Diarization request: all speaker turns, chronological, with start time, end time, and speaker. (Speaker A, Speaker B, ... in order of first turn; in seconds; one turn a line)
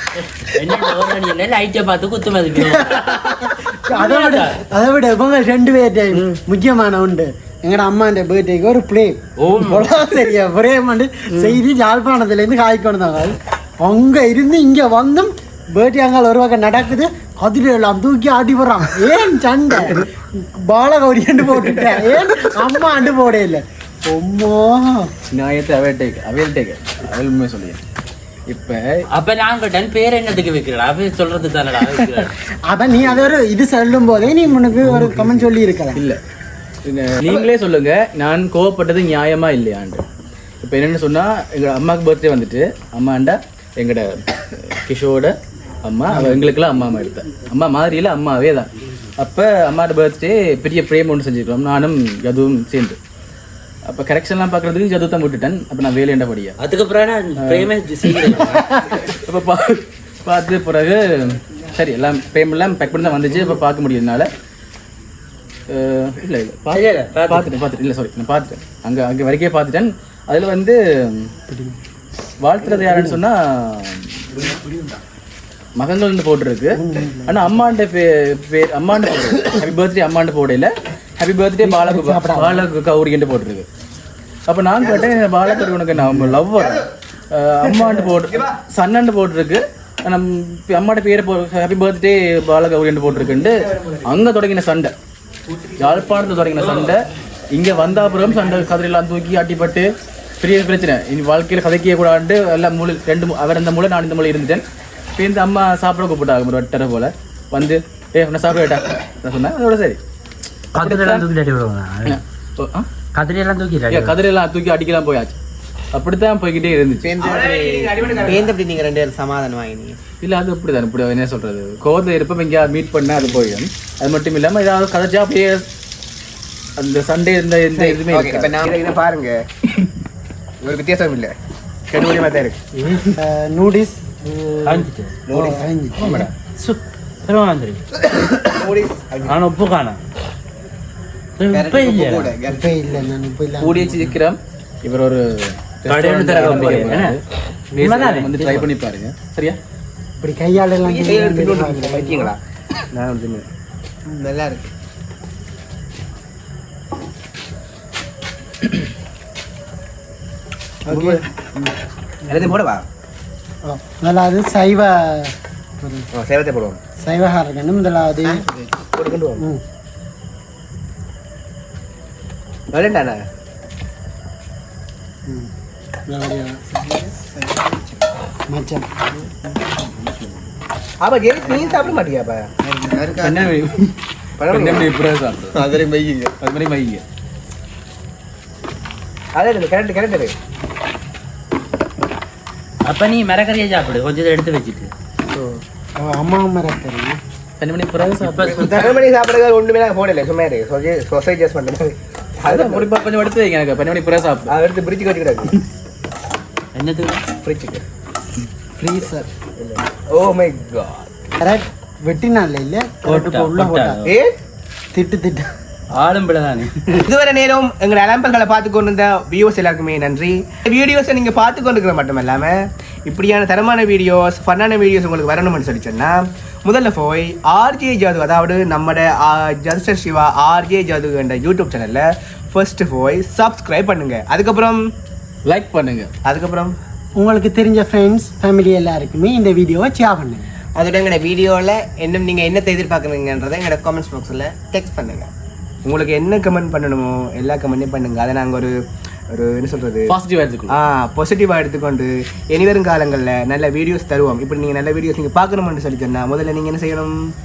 Speaker A: 0.3-4.6
Speaker B: 2.7-25.1
Speaker A: 9.4-9.9
Speaker C: 21.6-22.0
Speaker D: 25.3-27.8
Speaker D: 28.5-29.1
Speaker A: 29.1-32.4
Speaker B: 32.7-36.1
Speaker D: 34.8-36.2
Speaker D: 36.9-40.0
Speaker D: 40.6-53.0
Speaker D: 53.9-56.6
Speaker A: 56.6-58.8
Speaker D: 57.4-57.7
Speaker B: 58.5-59.0
Speaker D: 59.0-64.3
Speaker D: 65.7-71.3
Speaker A: 66.7-67.5
Speaker B: 71.5-71.8
Speaker D: 72.4-74.2
Speaker B: 72.8-73.2
Speaker D: 75.8-83.7
Speaker B: 76.7-77.5
Speaker B: 81.6-82.7
Speaker D: 84.5-94.9
Speaker C: 84.8-85.7
Speaker C: 86.5-86.8
Speaker C: 87.6-88.6
Speaker C: 93.2-94.2
Speaker D: 95.8-104.6
Speaker C: 96.6-96.9
Speaker D: 105.2-110.0
Speaker A: 110.8-112.2
Speaker D: 110.8-111.2
Speaker D: 112.1-112.9
Speaker A: 113.2-114.2
Speaker D: 113.9-115.4
Speaker D: 115.9-117.1
Speaker E: 117.0-120.0
Speaker C: 117.2-118.6
Speaker D: 120.2-125.7
Speaker D: 126.8-128.6
Speaker E: 127.8-128.8
Speaker C: 128.6-129.4
Speaker C: 130.6-131.3
Speaker C: 131.9-132.6
Speaker B: 132.8-136.3
Speaker A: 134.6-135.2
Speaker C: 135.3-135.6
Speaker A: 136.0-137.8
Speaker C: 138.2-139.4
Speaker A: 139.3-140.0
Speaker A: 141.4-142.4
Speaker E: 141.5-142.8
Speaker B: 142.5-144.2
Speaker D: 143.6-147.2
Speaker A: 145.9-147.2
Speaker D: 147.8-149.6
Speaker A: 147.8-148.7
Speaker B: 150.2-152.3
Speaker C: 150.8-152.4
Speaker C: 152.9-153.5
Speaker E: 154.1-154.7
Speaker B: 160.9-161.2
Speaker C: 160.9-161.2
Speaker C: 162.3-162.9
Speaker B: 163.7-166.1
Speaker C: 166.1-166.8
Speaker B: 167.0-168.4
Speaker E: 168.2-168.8
Speaker C: 168.9-169.4
Speaker C: 172.7-173.2
Speaker B: 176.1-176.6
Speaker E: 176.7-178.1
Speaker B: 178.5-178.9
Speaker C: 181.0-182.5
Speaker E: 182.6-183.5
Speaker D: 183.2-183.9
Speaker C: 184.4-184.9
Speaker D: 184.5-185.8
Speaker E: 185.5-186.3
Speaker D: 186.4-187.0
Speaker C: 189.3-190.3
Speaker A: 192.9-194.9
Speaker B: 196.0-197.2
Speaker D: 197.6-198.9
Speaker A: 198.0-198.8
Speaker C: 198.4-202.9
Speaker D: 202.4-204.5
Speaker C: 204.5-205.5
Speaker A: 206.7-207.2
Speaker C: 207.4-207.8
Speaker B: 208.8-209.3
Speaker C: 209.6-211.3
Speaker B: 211.4-214.0
Speaker A: 213.1-214.2
Speaker C: 214.1-214.3
Speaker B: 214.9-215.5
Speaker A: 216.0-217.1
Speaker C: 217.0-234.9
Speaker D: 235.4-236.1
Speaker C: 236.2-236.8
Speaker B: 237.2-240.5
Speaker E: 240.8-245.3
Speaker C: 245.8-248.8
Speaker C: 249.3-250.1
Speaker D: 250.1-250.8
Speaker C: 250.7-257.3